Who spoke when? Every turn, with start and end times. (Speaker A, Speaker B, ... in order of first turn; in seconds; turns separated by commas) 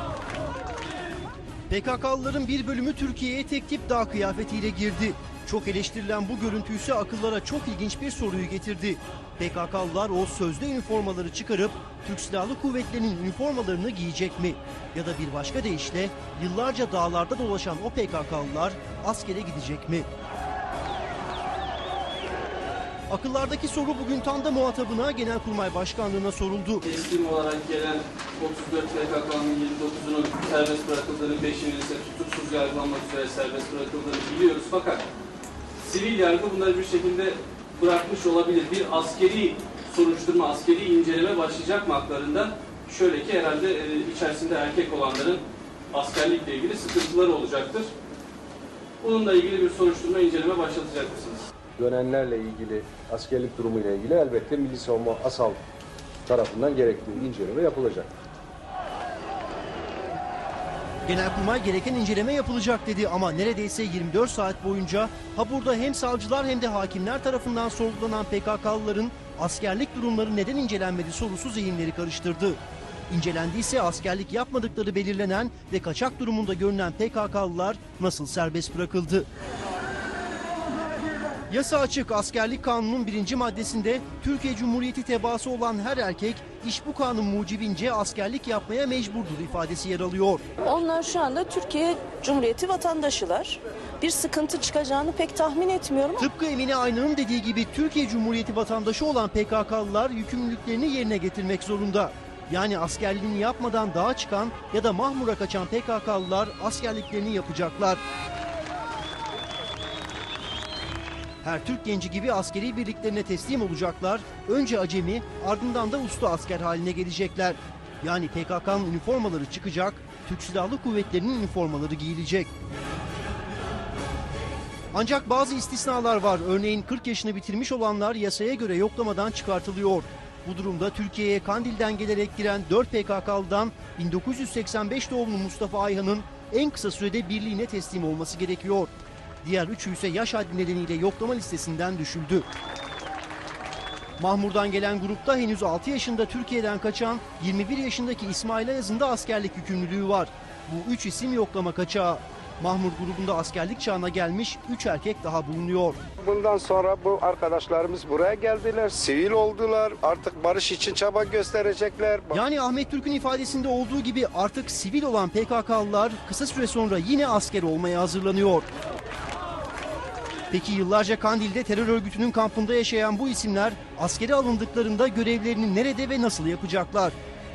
Speaker A: 1.7-20.1, Speaker A: 23.1-26.8, Speaker B: 26.8-35.0, Speaker B: 35.8-47.9, Speaker B: 49.0-51.5, Speaker C: 51.8-55.6, Speaker C: 56.2-58.1, Speaker A: 61.0-72.6, Speaker A: 73.1-79.3, Speaker A: 81.5-90.4, Speaker D: 90.6-96.2, Speaker A: 96.2-108.0, Speaker A: 111.4-122.5, Speaker A: 124.9-138.9, Speaker A: 139.4-142.4, Speaker A: 144.2-156.0, Speaker E: 156.2-162.4, Speaker A: 162.3-168.7, Speaker A: 170.5-177.1